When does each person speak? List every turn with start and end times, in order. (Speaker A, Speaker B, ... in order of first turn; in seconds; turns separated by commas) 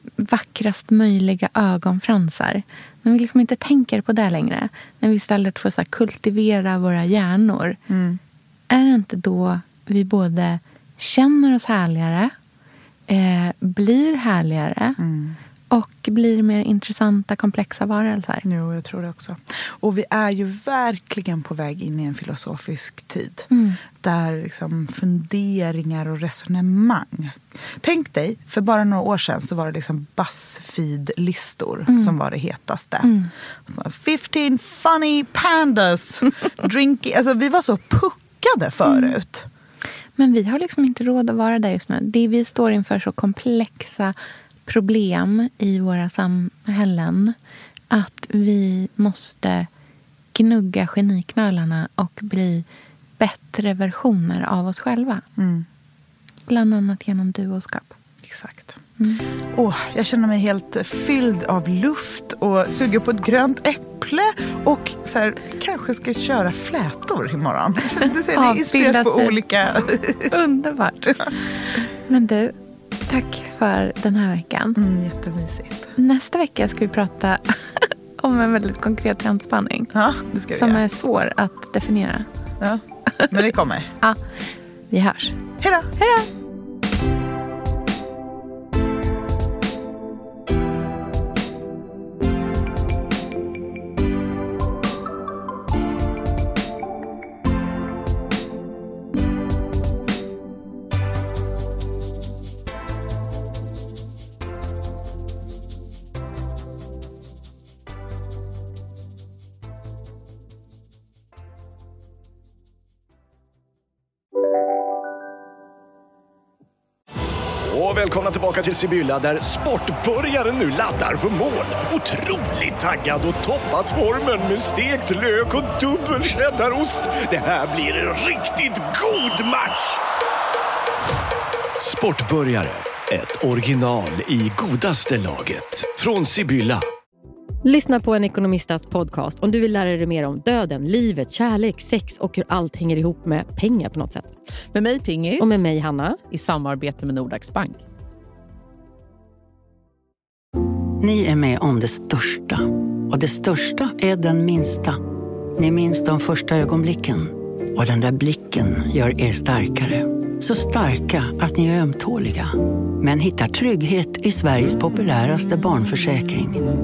Speaker A: 0.2-7.8, Speaker B: 7.9-8.2, Speaker A: 8.7-12.3, Speaker A: 13.1-15.0, Speaker B: 15.0-15.4, Speaker A: 15.7-18.4, Speaker B: 18.4-33.1, Speaker A: 23.5-23.8, Speaker A: 31.9-32.1, Speaker A: 33.0-33.3, Speaker B: 33.7-39.5, Speaker A: 40.2-44.1, Speaker A: 44.6-47.3, Speaker A: 47.9-49.7, Speaker A: 50.3-52.6, Speaker A: 53.2-55.2, Speaker B: 55.4-55.6, Speaker A: 56.5-58.0, Speaker B: 58.2-58.8, Speaker B: 59.5-70.3, Speaker A: 68.3-69.4, Speaker A: 70.3-72.5, Speaker A: 73.1-74.8, Speaker B: 74.8-75.9, Speaker A: 76.0-79.9, Speaker B: 79.9-80.8, Speaker A: 80.5-82.2, Speaker B: 82.6-83.9, Speaker A: 84.9-85.4, Speaker B: 85.6-85.9, Speaker A: 86.0-86.3, Speaker C: 117.7-130.0, Speaker C: 131.8-136.8, Speaker D: 137.6-144.3, Speaker E: 144.7-145.3, Speaker D: 145.3-146.2, Speaker E: 146.3-147.8, Speaker F: 151.0-155.0, Speaker F: 155.6-166.6